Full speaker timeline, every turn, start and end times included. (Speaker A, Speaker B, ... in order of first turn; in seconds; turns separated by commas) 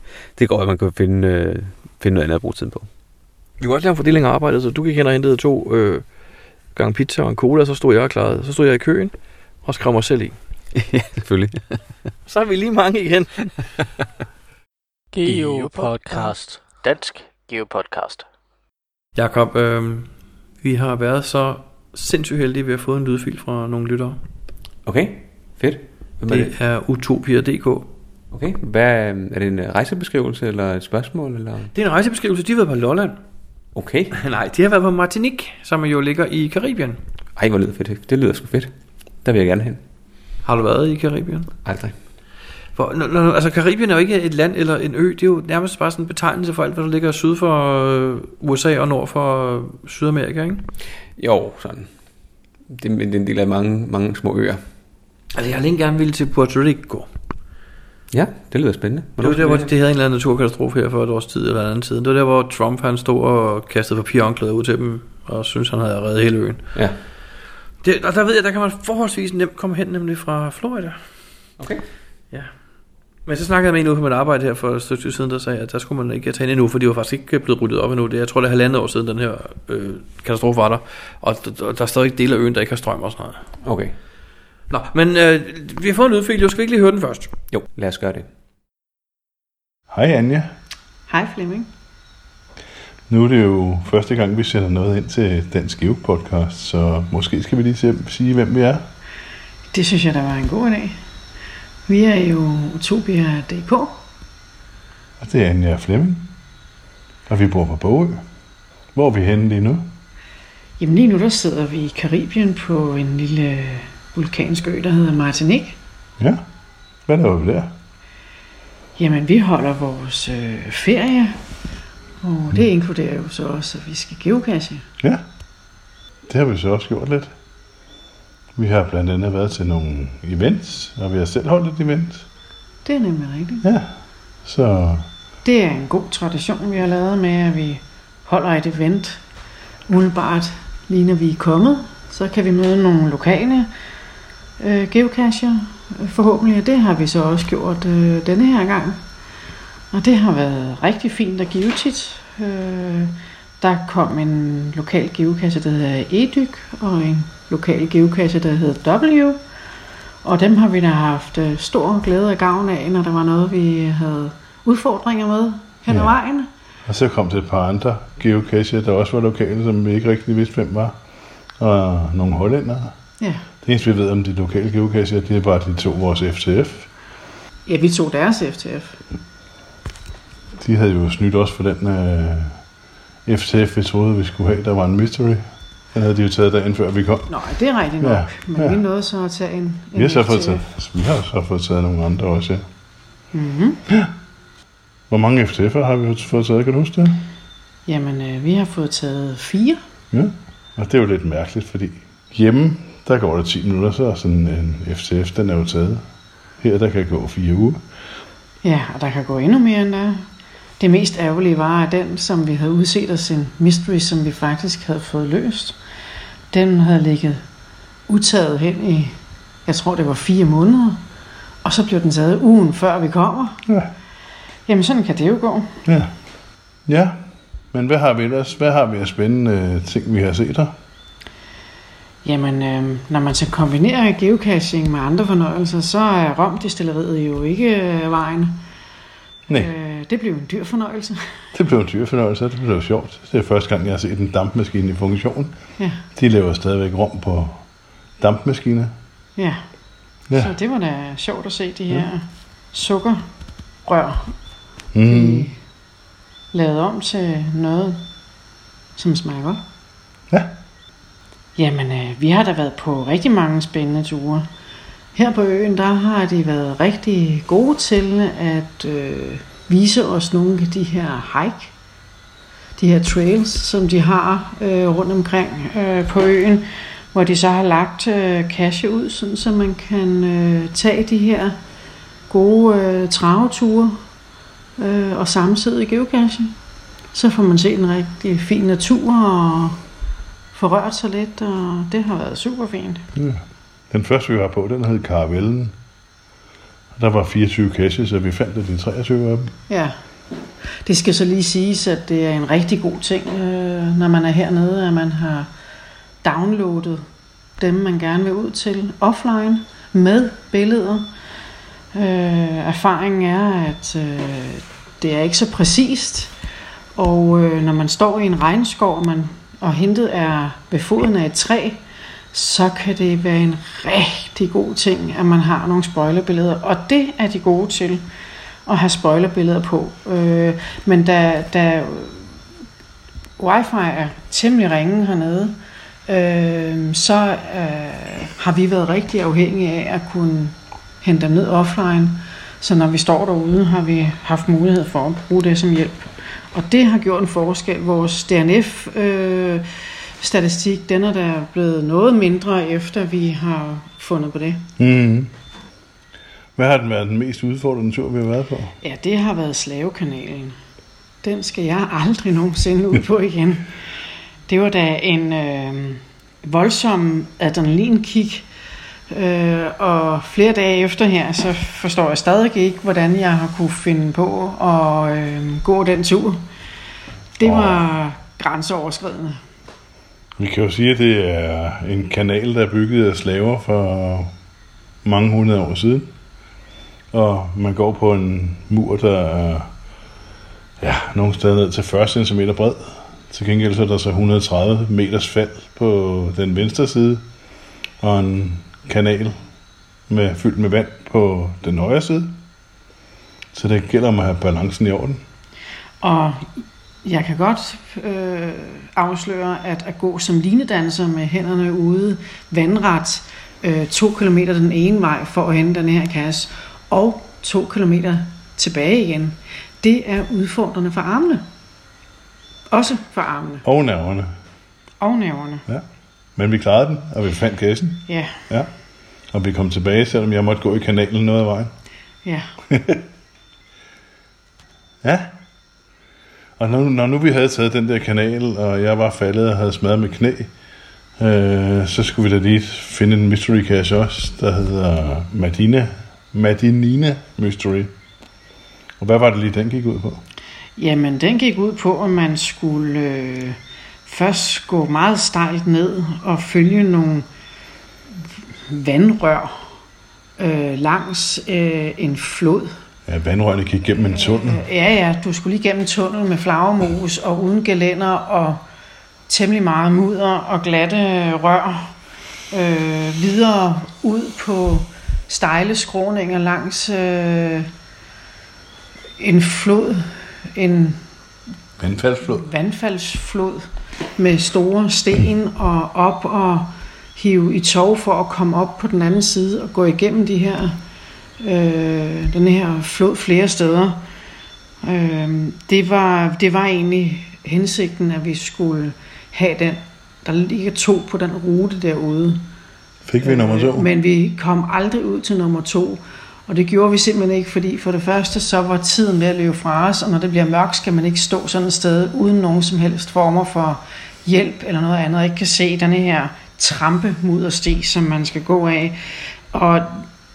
Speaker A: 0.4-2.9, Speaker B: 3.6-6.0, Speaker B: 6.7-10.3, Speaker A: 10.7-11.8, Speaker B: 12.2-13.6, Speaker C: 15.2-18.2, Speaker B: 19.1-20.1, Speaker B: 20.6-24.2, Speaker A: 24.8-26.5, Speaker B: 26.2-27.9, Speaker A: 28.3-31.7, Speaker B: 31.7-33.2, Speaker A: 33.7-34.1, Speaker B: 34.1-37.0, Speaker A: 37.4-38.7, Speaker A: 39.2-39.8, Speaker B: 40.4-41.5, Speaker A: 41.6-42.0, Speaker B: 42.8-50.7, Speaker A: 51.2-51.9, Speaker A: 52.7-54.6, Speaker B: 55.3-57.1, Speaker A: 58.1-59.7, Speaker B: 59.2-66.6, Speaker B: 67.8-71.0, Speaker A: 71.6-71.8, Speaker B: 73.2-83.4, Speaker A: 83.6-83.9, Speaker B: 84.7-87.3, Speaker A: 87.5-88.3, Speaker D: 89.9-90.5, Speaker E: 91.1-91.7, Speaker D: 93.1-98.8, Speaker E: 99.7-101.0, Speaker E: 101.9-104.0, Speaker D: 105.2-106.3, Speaker D: 107.3-108.2, Speaker D: 108.9-109.9, Speaker E: 110.8-115.8, Speaker D: 117.1-117.7, Speaker E: 119.0-121.4, Speaker E: 122.2-124.8, Speaker D: 126.3-127.3, Speaker D: 128.6-132.3, Speaker E: 132.8-133.6, Speaker D: 133.6-133.9, Speaker D: 134.4-135.1, Speaker E: 135.4-139.2, Speaker E: 139.9-143.7, Speaker E: 144.6-149.0, Speaker E: 149.9-159.4, Speaker E: 160.2-166.5, Speaker D: 166.8-170.9, Speaker D: 171.6-172.9, Speaker E: 173.2-173.4, Speaker D: 173.6-176.9, Speaker E: 177.7-179.0, Speaker D: 180.6-182.6, Speaker D: 183.2-185.4, Speaker D: 185.9-187.3, Speaker E: 187.3-190.7, Speaker D: 188.0-188.8, Speaker D: 189.9-192.6, Speaker E: 193.3-193.8, Speaker D: 195.1-197.2, Speaker E: 197.8-199.8, Speaker D: 200.1-206.0, Speaker D: 206.6-207.8, Speaker E: 208.6-210.2, Speaker E: 210.8-215.8, Speaker E: 216.5-217.4, Speaker E: 218.1-219.1, Speaker E: 219.7-221.0, Speaker E: 221.6-223.6, Speaker E: 224.7-225.8, Speaker D: 225.8-226.1, Speaker D: 226.9-227.2, Speaker D: 227.7-230.7, Speaker E: 232.2-238.6, Speaker E: 239.6-241.2, Speaker D: 241.5-245.5, Speaker E: 245.8-246.0, Speaker D: 246.1-247.6, Speaker D: 248.2-248.9, Speaker E: 250.3-253.2, Speaker E: 253.8-254.3, Speaker D: 254.9-255.5, Speaker E: 255.1-255.6, Speaker E: 256.5-258.0, Speaker E: 258.9-259.6, Speaker E: 261.6-264.5, Speaker E: 265.1-271.7, Speaker E: 272.8-281.6, Speaker E: 282.3-284.0, Speaker E: 284.8-286.5, Speaker E: 287.1-289.8, Speaker E: 290.5-293.1, Speaker D: 293.1-295.7, Speaker D: 296.9-299.5, Speaker E: 299.7-299.9, Speaker E: 300.8-305.5, Speaker E: 306.2-307.0, Speaker E: 307.6-311.1, Speaker E: 311.9-316.3, Speaker E: 316.9-321.8, Speaker E: 322.3-328.0, Speaker E: 328.6-332.2, Speaker E: 333.4-335.5, Speaker E: 336.1-349.6, Speaker E: 350.2-354.7, Speaker D: 354.8-355.3, Speaker D: 356.6-358.7, Speaker E: 358.8-360.5, Speaker E: 361.2-363.7, Speaker E: 364.5-368.4, Speaker E: 369.1-376.4, Speaker E: 377.4-379.4, Speaker D: 377.4-377.8, Speaker D: 380.4-384.3, Speaker D: 385.0-386.1, Speaker D: 387.1-389.7, Speaker D: 390.8-397.2, Speaker D: 398.0-399.4, Speaker D: 400.1-402.4, Speaker D: 403.5-405.2, Speaker E: 406.0-406.5, Speaker E: 407.0-421.4, Speaker E: 422.7-423.6, Speaker D: 423.6-424.3, Speaker E: 425.0-425.6, Speaker D: 426.4-428.7, Speaker E: 428.1-428.4, Speaker D: 429.3-431.7, Speaker E: 432.2-432.5, Speaker D: 432.7-433.0, Speaker D: 435.0-435.3, Speaker D: 436.6-440.5, Speaker D: 441.2-447.9, Speaker D: 449.0-450.2, Speaker E: 450.8-457.2, Speaker E: 458.7-459.6, Speaker E: 460.4-462.7, Speaker D: 463.1-464.6, Speaker E: 464.1-468.6, Speaker E: 469.3-471.9, Speaker E: 472.5-477.7, Speaker E: 479.2-481.0, Speaker D: 481.8-482.4, Speaker E: 482.3-483.6, Speaker E: 484.2-490.8, Speaker E: 491.4-494.0, Speaker E: 494.8-502.4, Speaker D: 503.1-503.9, Speaker E: 503.2-519.0, Speaker E: 519.5-520.0